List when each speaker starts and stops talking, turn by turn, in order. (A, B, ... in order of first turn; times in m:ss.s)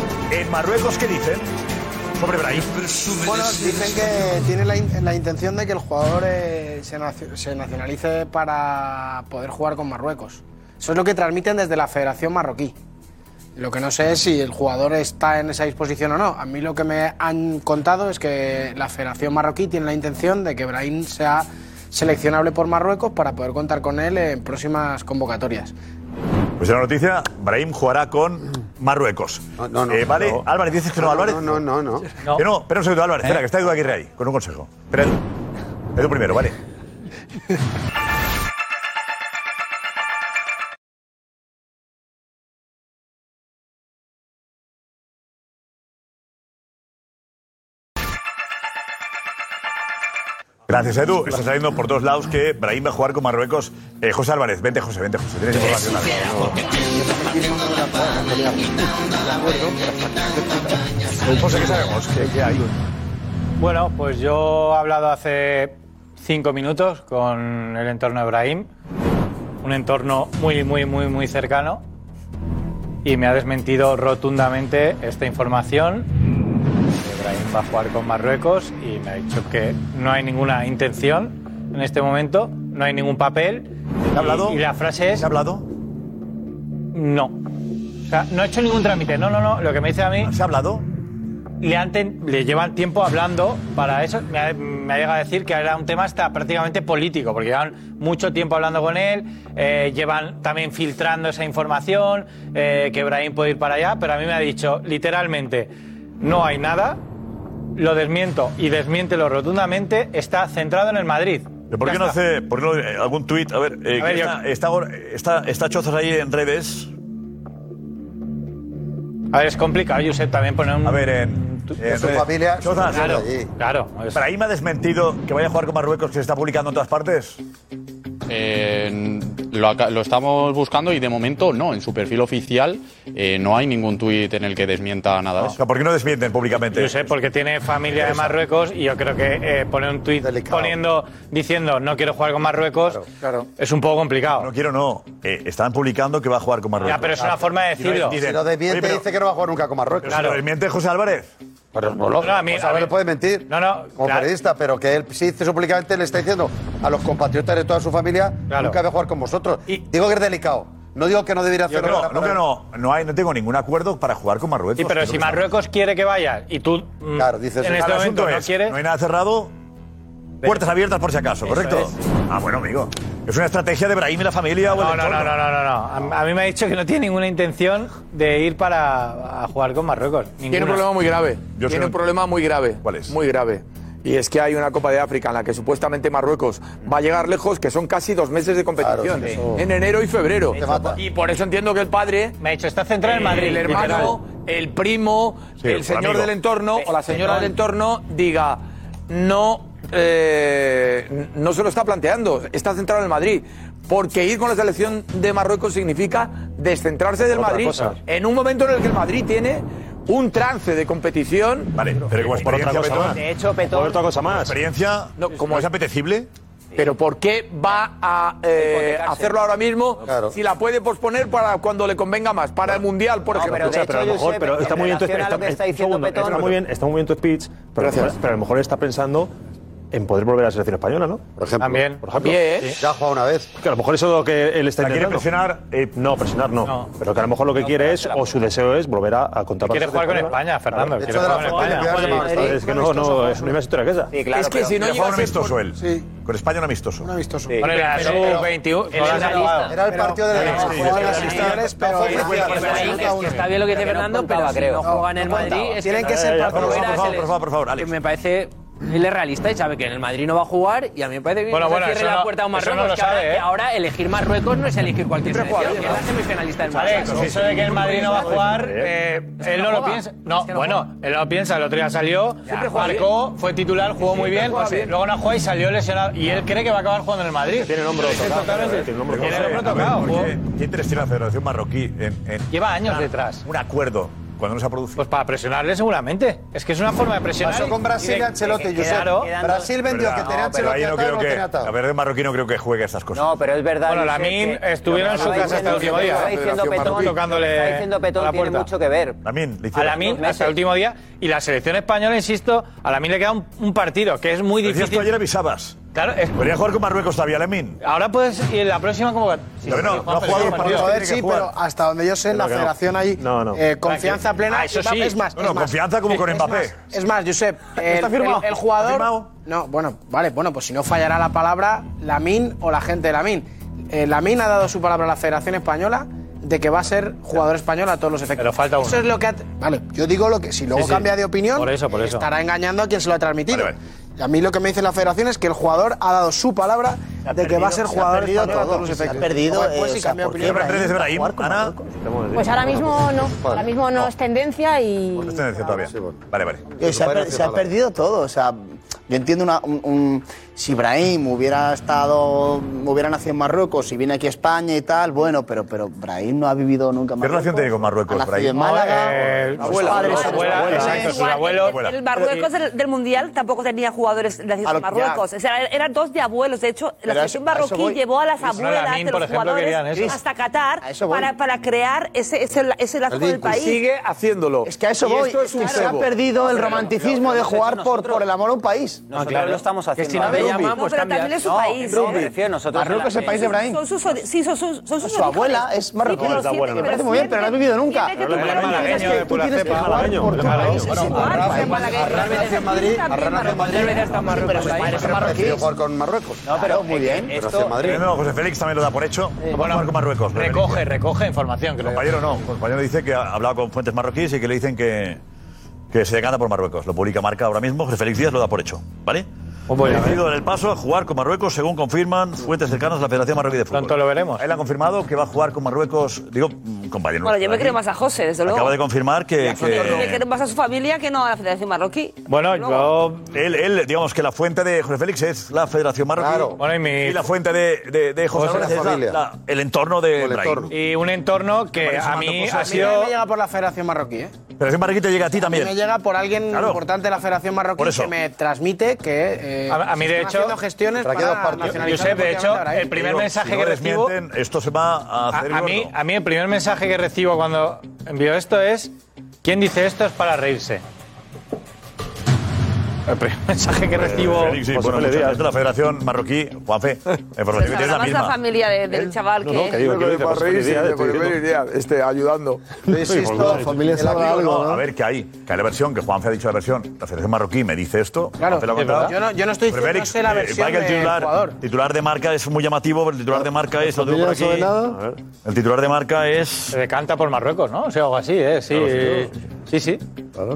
0:00.3-0:01.5 A
0:02.2-0:02.9 A
0:03.1-0:12.8 B
0:13.6-0:25.7 B
0:26.6-0:31.6 A
0:29.6-0:30.3 C
0:31.0-0:32.1 C
0:32.3-0:35.2 A
0:36.0-0:36.6 A
0:50.7-0:56.6 A
1:01.3-1:02.6 A
1:03.6-1:08.7 D
1:09.6-1:11.8 D
1:13.0-1:16.1 D
1:17.0-1:25.3 D
1:24.1-1:25.7 A
1:26.9-1:27.4 D
1:28.0-1:30.3 D
1:30.2-1:30.9 A
1:31.6-1:47.0 D
1:47.8-1:52.2 D
1:51.7-1:56.9 A
1:54.0-1:54.4 D
1:59.3-2:01.8 D
2:00.8-2:03.3 A
2:01.8-2:03.5 C
2:02.9-2:04.2 D
2:04.1-2:07.4 A
2:08.3-2:15.6 E
2:15.4-2:17.1 A
2:16.7-2:24.5 D
2:17.9-2:18.4 A
2:20.2-2:20.8 C
2:24.4-2:29.0 A
2:26.8-2:28.2 D
2:28.0-2:30.3 C
2:30.0-2:31.3 A
2:32.2-2:33.0 D
2:32.4-2:42.4 C
2:33.5-2:34.3 D
2:38.5-2:38.8 D
2:41.7-2:45.5 A
2:44.8-2:48.8 D
2:47.2-2:47.8 C
2:47.7-2:49.5 A
2:50.4-2:55.4 A
2:51.4-2:51.9 D
2:54.7-3:00.8 D
3:00.5-3:12.4 F
3:01.6-3:02.0 A
3:02.8-3:03.2 A
3:08.8-3:09.3 C
3:10.6-3:10.8 G
3:10.6-3:11.0 C
3:12.4-3:14.2 D
3:13.0-3:31.8 F
3:15.6-3:16.3 A
3:16.8-3:17.5 G
3:27.2-3:28.0 H
3:31.7-3:33.2 A
3:32.3-3:34.6 H
3:32.9-3:34.1 G
3:34.4-3:36.3 A
3:35.2-3:35.7 F
3:36.8-3:43.8 F
3:38.5-3:39.4 G
3:40.0-3:40.3 C
3:43.3-3:46.6 G
3:43.4-3:49.3 H
3:47.8-3:48.2 F
3:49.9-3:51.2 H
3:51.4-3:51.8 C
3:51.6-3:52.0 D
3:52.0-3:52.4 H
3:52.2-3:52.7 F
3:52.8-3:53.5 C
3:53.6-3:55.3 H
3:54.8-3:56.0 A
3:56.0-4:04.1 H
3:56.6-3:56.9 D
3:57.6-3:58.4 G
3:59.6-4:02.4 D
4:01.0-4:03.3 C
4:02.0-4:02.6 G
4:04.1-4:05.0 G
4:04.3-4:05.6 F
4:04.8-4:07.1 A
4:05.7-4:06.1 B
4:07.0-4:07.7 B
4:07.5-4:09.7 G
4:07.6-4:09.8 D
4:09.0-4:09.6 I
4:09.7-4:12.9 C
4:09.7-4:13.5 B
4:10.4-4:11.7 H
4:10.4-4:12.8 A
4:12.3-4:13.4 D
4:12.5-4:28.3 I
4:12.6-4:15.8 G
4:14.8-4:16.8 B
4:16.0-4:16.8 H
4:16.5-4:17.9 A
4:21.5-4:23.5 D
4:25.3-4:26.0 F
4:26.7-4:40.3 D
4:27.1-4:28.0 A
4:27.8-4:28.9 H
4:29.4-4:30.8 I
4:32.5-4:33.1 F
4:34.0-4:35.0 F
4:37.6-4:40.0 H
4:39.1-4:45.0 A
4:42.5-4:43.4 D
4:45.0-4:48.3 D
4:47.4-4:51.7 C
4:48.0-4:50.8 G
4:48.8-4:49.3 D
4:49.8-4:53.2 A
4:53.1-4:59.2 G
4:53.9-4:58.7 D
4:55.2-4:57.2 F
4:59.2-5:00.2 A
4:59.8-5:05.1 D
5:00.0-5:00.6 G
5:04.6-5:05.8 A
5:06.0-5:06.4 D
5:06.4-5:07.8 A
5:07.8-5:11.0 D
5:09.7-5:11.5 A
5:10.3-5:40.6 B
5:12.3-5:13.7 H
5:13.8-5:15.2 D
5:15.4-5:16.8 A
5:17.9-5:19.3 A
5:28.4-5:29.1 D
5:30.7-5:32.2 D
5:33.5-5:33.8 A
5:37.3-5:41.8 J
5:38.4-5:39.2 C
5:40.4-5:41.8 A
5:41.8-5:43.0 H
5:42.3-5:45.4 K
5:42.7-5:43.7 C
5:45.2-5:46.7 A
5:45.6-5:46.2 C
5:46.8-6:01.2 J
5:46.8-5:47.7 C
5:57.2-5:58.6 A
5:58.5-6:01.8 D
5:59.6-6:00.8 F
6:00.0-6:13.8 L
6:01.6-6:02.0 A
6:02.1-6:02.5 J
6:04.6-6:05.2 J
6:07.1-6:08.0 J
6:08.5-6:10.2 D
6:09.9-6:10.2 J
6:10.8-6:11.3 J
6:13.1-6:13.5 C
6:13.6-6:16.1 F
6:14.6-6:19.2 J
6:16.4-6:18.2 G
6:19.1-6:23.4 G
6:20.1-6:21.3 I
6:20.1-6:20.7 J
6:20.2-6:22.3 L
6:21.4-6:23.8 J
6:23.0-6:29.2 L
6:25.0-6:31.8 J
6:26.1-6:27.2 H
6:28.1-6:29.0 H
6:28.2-6:30.9 D
6:29.6-6:30.9 H
6:30.8-6:34.2 L
6:31.0-6:36.7 C
6:33.8-6:34.4 I
6:33.9-6:35.0 G
6:34.3-6:35.6 J
6:36.4-6:38.0 G
6:36.6-6:37.3 J
6:37.3-6:38.0 C
6:37.8-6:40.9 A
6:39.5-6:42.0 D
6:41.8-6:45.2 A
6:45.9-6:49.3 A
6:49.7-6:50.2 D
6:49.8-6:57.8 A
6:53.7-6:54.4 D
6:57.2-6:58.8 L
6:58.4-7:00.2 A
6:59.4-7:02.9 L
6:59.5-7:00.2 C
7:02.3-7:03.3 D
7:03.3-7:10.7 A
7:06.2-7:06.6 C
7:06.6-7:07.2 D
7:08.4-7:08.7 D
7:08.4-7:09.2 C
7:10.2-7:10.7 C
7:10.7-7:13.1 D
7:11.8-7:12.7 A
7:12.1-7:14.3 B
7:14.6-7:15.8 A
7:15.3-7:22.9 B
7:16.5-7:16.8 A
7:17.8-7:18.1 A
7:19.7-7:20.6 D
7:21.0-7:21.9 C
7:21.7-7:24.1 D
7:22.9-7:26.0 A
7:25.3-7:28.9 D
7:29.4-7:30.8 D
7:33.1-7:34.6 D
7:34.0-7:38.4 A
7:34.0-7:35.4 H
7:37.5-7:39.9 L
7:38.9-7:41.4 H
7:39.9-7:42.6 F
7:42.9-7:44.6 C
7:43.0-7:44.0 H
7:44.2-7:49.2 A
7:48.4-7:51.6 B
7:48.7-7:49.2 D
7:49.7-7:54.8 A
7:54.8-7:55.2 H
7:55.4-7:56.8 A
7:56.7-8:00.0 D
7:58.8-7:59.3 H